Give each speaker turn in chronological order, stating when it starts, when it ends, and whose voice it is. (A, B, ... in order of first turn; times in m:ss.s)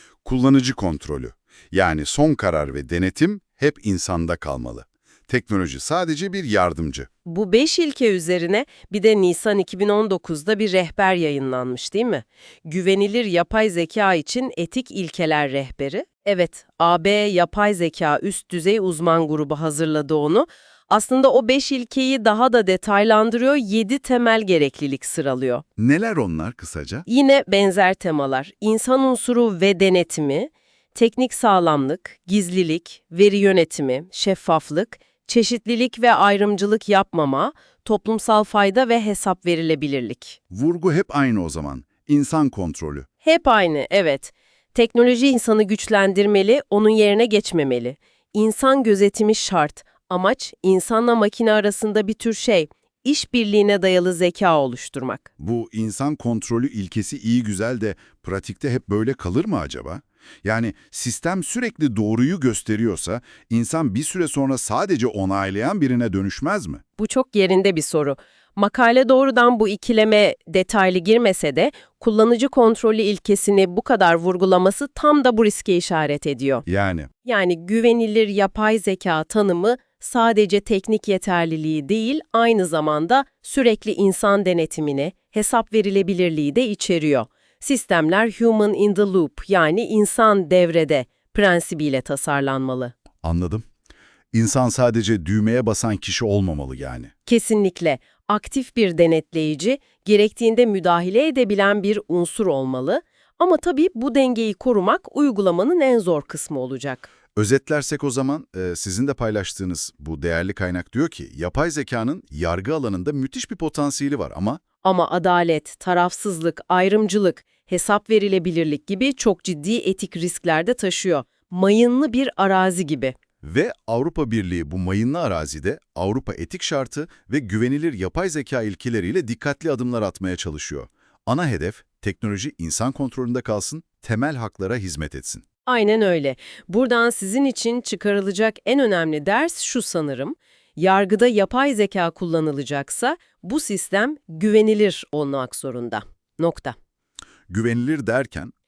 0:00.2-0:07.1 A
0:07.2-0:25.6 B
0:25.8-0:27.0 A
0:27.0-0:40.4 B
0:40.5-0:43.1 A
0:43.2-0:55.3 B
0:55.4-1:06.8 A
1:07.0-1:16.6 B
1:16.6-1:17.1 A
1:17.2-1:32.9 B
1:33.2-1:33.6 A
1:34.3-1:37.1 A
1:37.3-1:47.1 B
1:47.3-1:54.6 A
1:54.8-2:03.1 B
2:03.4-2:15.4 A
2:15.6-2:26.8 B
2:27.5-2:28.5 A